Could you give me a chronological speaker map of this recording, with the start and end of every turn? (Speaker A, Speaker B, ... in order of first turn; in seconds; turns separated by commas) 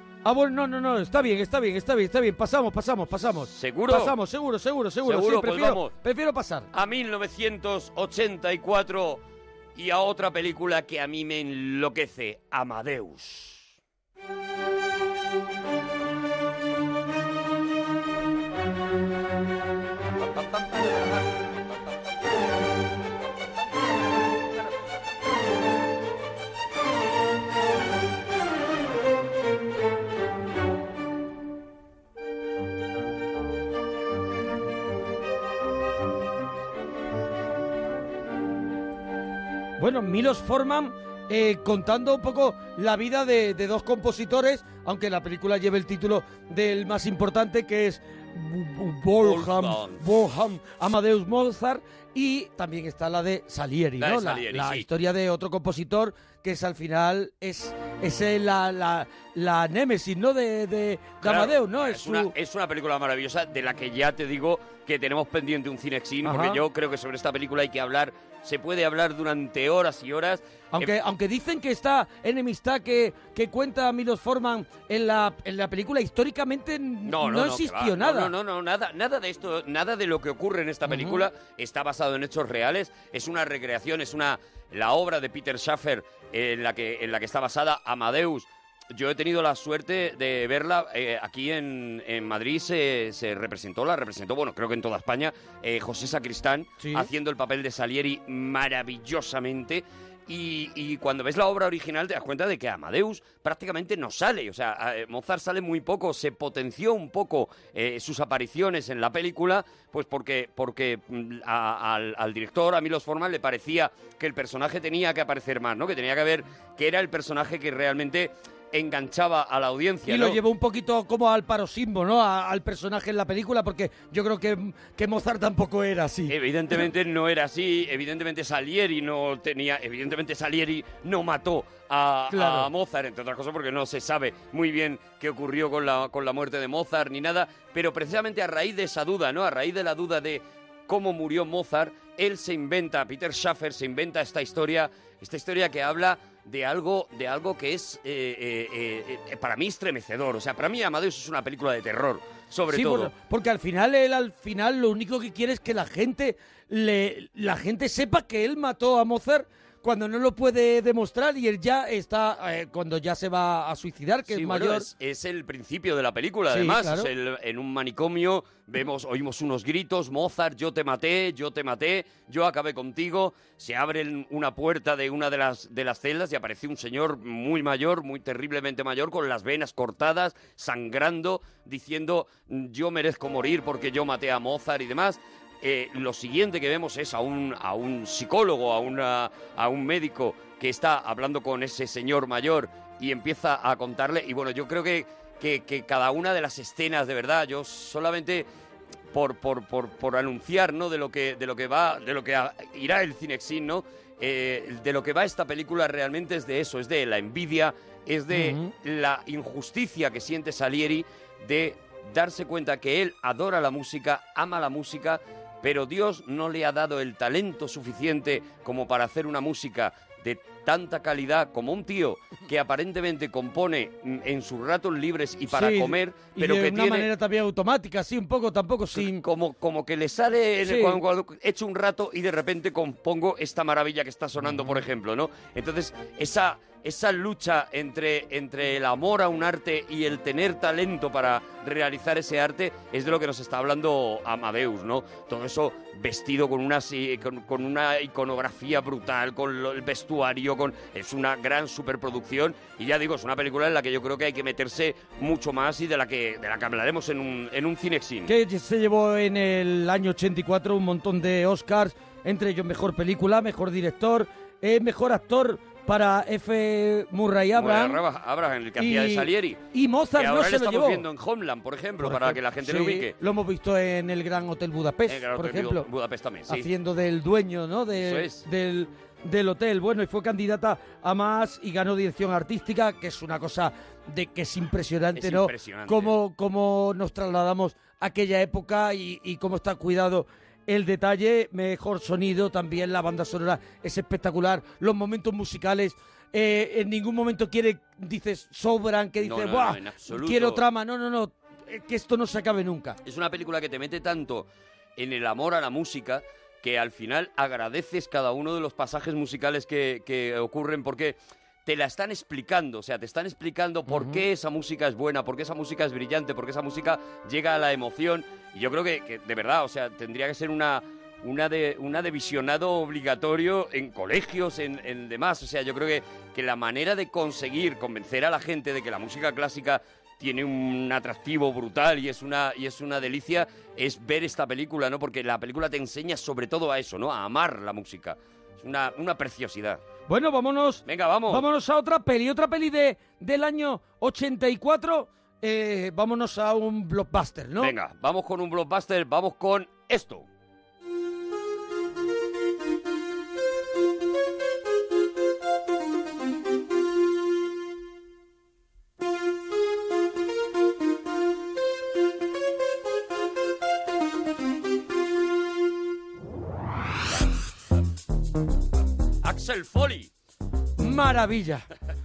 Speaker A: 0.2-6.7, Speaker B: 3.5-4.2, Speaker B: 5.0-6.0, Speaker B: 6.7-9.2, Speaker B: 9.7-13.7, Speaker B: 20.2-21.9, Speaker A: 39.8-62.3, Speaker B: 49.2-50.0, Speaker B: 54.0-54.9, Speaker B: 61.2-70.9, Speaker A: 66.2-66.6, Speaker A: 70.7-78.3, Speaker B: 77.0-120.4, Speaker A: 80.9-81.2, Speaker A: 96.8-97.1, Speaker A: 120.1-126.3, Speaker B: 126.3-153.1, Speaker A: 132.3-132.7, Speaker A: 152.7-164.9, Speaker B: 164.3-198.5, Speaker A: 166.5-167.1, Speaker B: 199.1-227.1, Speaker A: 208.3-208.7, Speaker A: 225.5-229.2, Speaker B: 228.9-258.3, Speaker A: 230.6-231.0, Speaker A: 258.3-268.0, Speaker B: 267.5-273.1, Speaker A: 268.8-271.1, Speaker A: 272.0-275.9, Speaker B: 275.1-276.7, Speaker A: 276.5-303.0, Speaker B: 277.9-278.4, Speaker B: 285.1-286.1, Speaker B: 299.2-300.6, Speaker B: 303.0-339.8, Speaker A: 313.9-314.2, Speaker A: 340.1-347.7, Speaker B: 340.9-341.4, Speaker B: 347.6-350.3, Speaker B: 369.2-370.1, Speaker A: 370.8-371.7